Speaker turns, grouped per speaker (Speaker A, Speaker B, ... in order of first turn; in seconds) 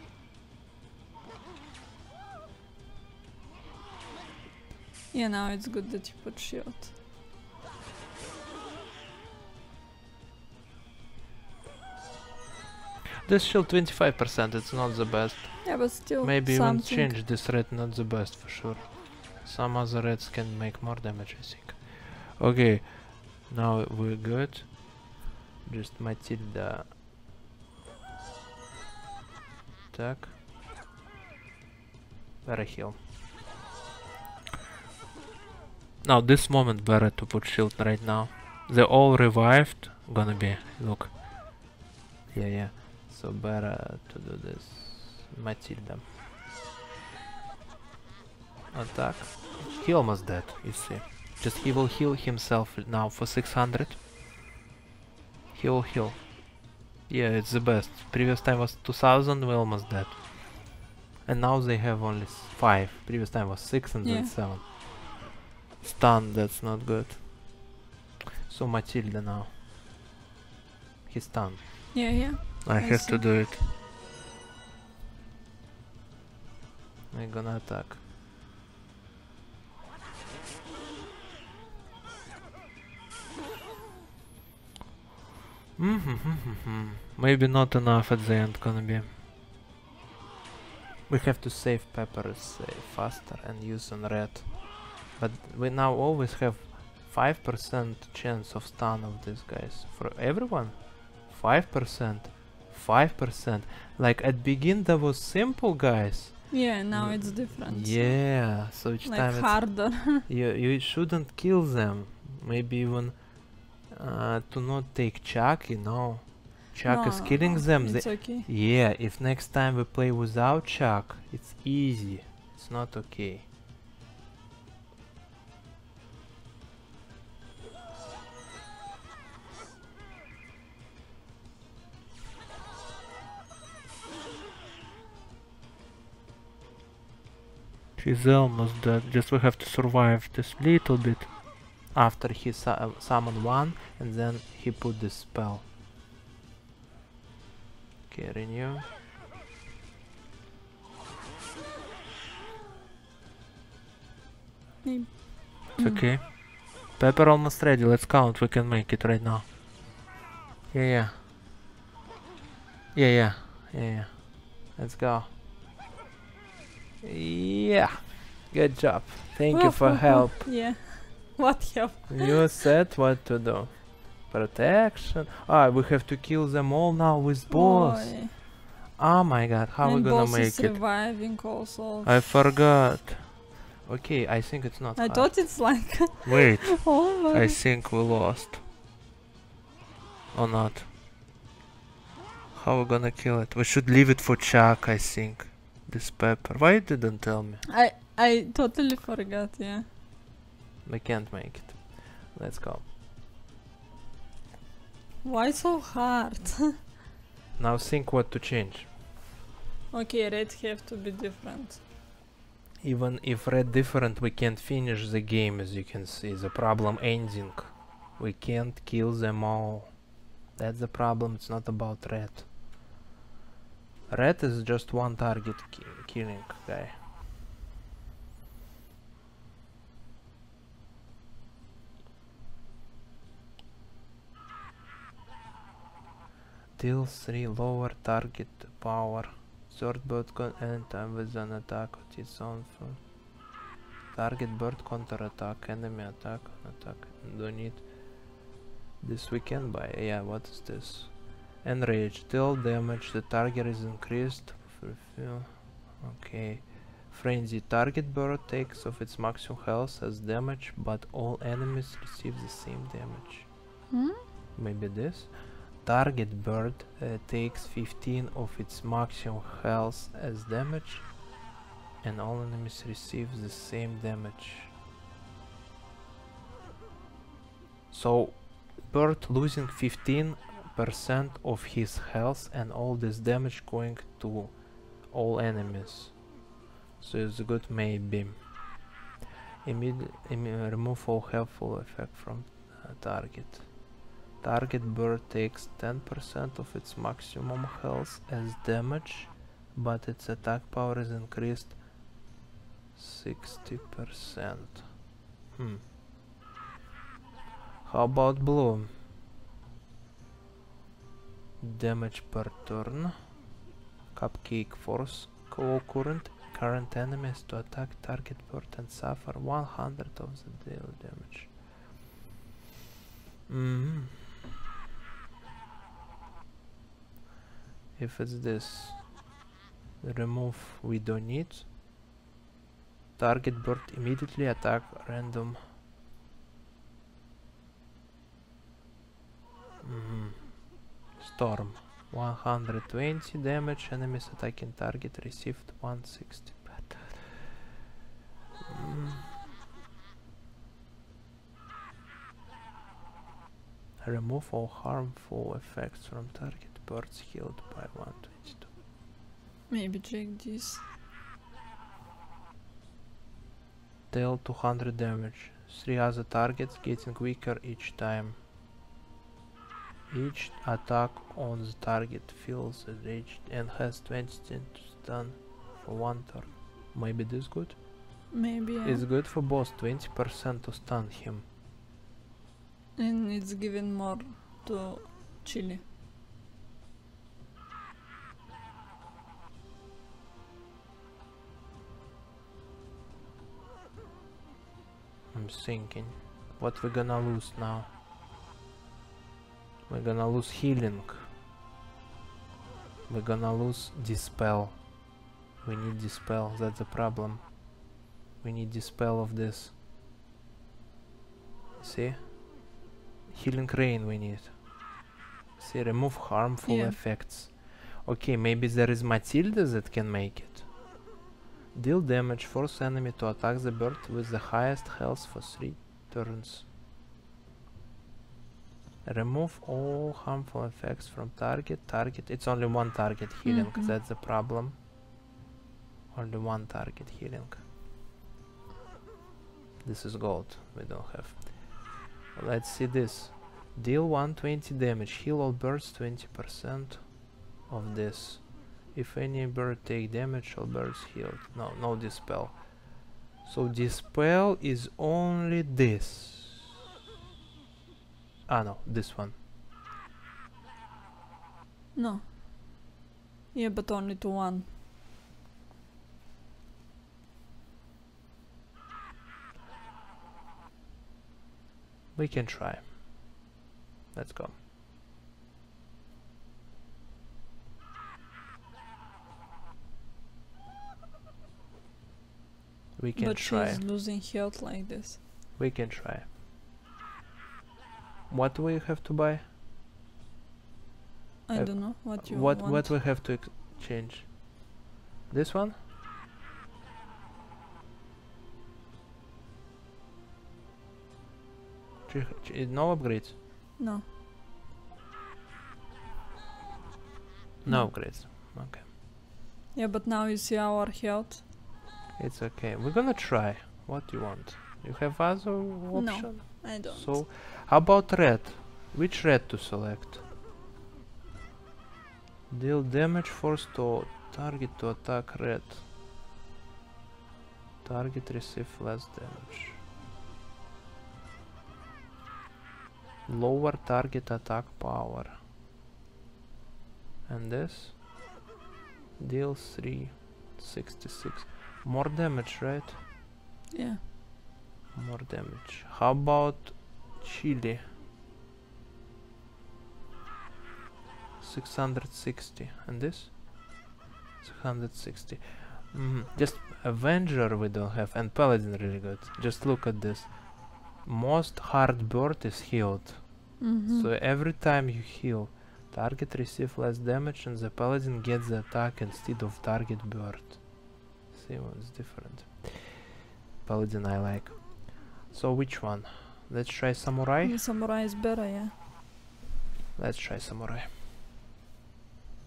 Speaker A: 5.1-6.9, 15.7-17.2, 64.0-64.3, 71.9-73.3, 106.5-108.2, 109.0-110.3, 116.9-118.5, 154.8-156.1, 169.5-172.4, 177.5-178.3, 179.8-182.3, 185.0-187.6, 197.7-199.9, 205.2-206.8, 209.9-211.8, 263.9-264.2, 359.7-360.8, 378.3-379.1, 383.0-385.8, 416.6-417.0, 433.4-433.9, 461.9-462.3, 463.5-464.7, 483.2-485.2, 491.5-492.9, 503.8-504.0, 507.7-507.9, 509.7-511.4, 515.9-517.2, 543.7-544.0, 563.6-564.1, 577.4-578.7
Speaker B: 13.2-24.8, 25.6-26.9, 29.9-30.4, 32.4-33.0, 36.0-41.1, 42.3-46.0, 48.7-54.0, 55.5-56.2, 57.1-60.2, 61.3-64.7, 65.8-67.2, 68.5-69.5, 71.1-73.6, 77.1-78.0, 85.8-89.1, 91.1-94.5, 95.1-113.2, 113.9-123.5, 138.0-141.3, 141.9-145.6, 148.1-148.9, 155.8-156.4, 156.9-159.5, 160.7-161.2, 162.9-165.3, 167.0-170.5, 172.1-178.3, 179.0-180.8, 182.0-188.6, 190.3-190.9, 192.5-197.6, 200.8-202.8, 207.6-208.9, 212.8-219.9, 220.6-222.5, 224.1-227.0, 236.8-243.0, 244.1-247.8, 249.0-263.5, 264.6-271.1, 272.0-274.7, 277.9-284.5, 285.1-286.2, 287.0-288.4, 289.6-293.7, 294.4-301.8, 302.9-304.9, 305.5-305.8, 307.8-308.9, 311.6-313.1, 314.1-321.5, 323.5-324.4, 328.0-329.0, 330.0-331.7, 333.2-335.6, 339.8-340.5, 341.2-347.3, 348.7-349.3, 354.0-358.7, 364.1-368.4, 370.1-377.8, 378.8-381.4, 395.3-397.9, 399.9-401.3, 403.1-404.8, 405.6-407.5, 408.4-409.7, 411.8-412.4, 413.3-414.6, 415.6-420.7, 421.7-426.7, 429.1-434.8, 436.1-437.6, 439.8-447.1, 447.7-452.7, 453.4-456.6, 458.5-459.4, 472.2-472.9, 474.1-474.6, 483.0-483.8, 485.6-486.3, 488.3-489.4, 491.6-494.4, 495.3-495.8, 502.1-503.4, 507.6-508.9, 512.2-520.2, 522.5-525.8, 527.8-529.8, 533.3-535.4, 537.3-538.0, 539.2-543.0, 544.9-547.8, 551.4-553.3, 554.4-570.6, 571.3-573.1, 573.6-577.6, 580.0-580.9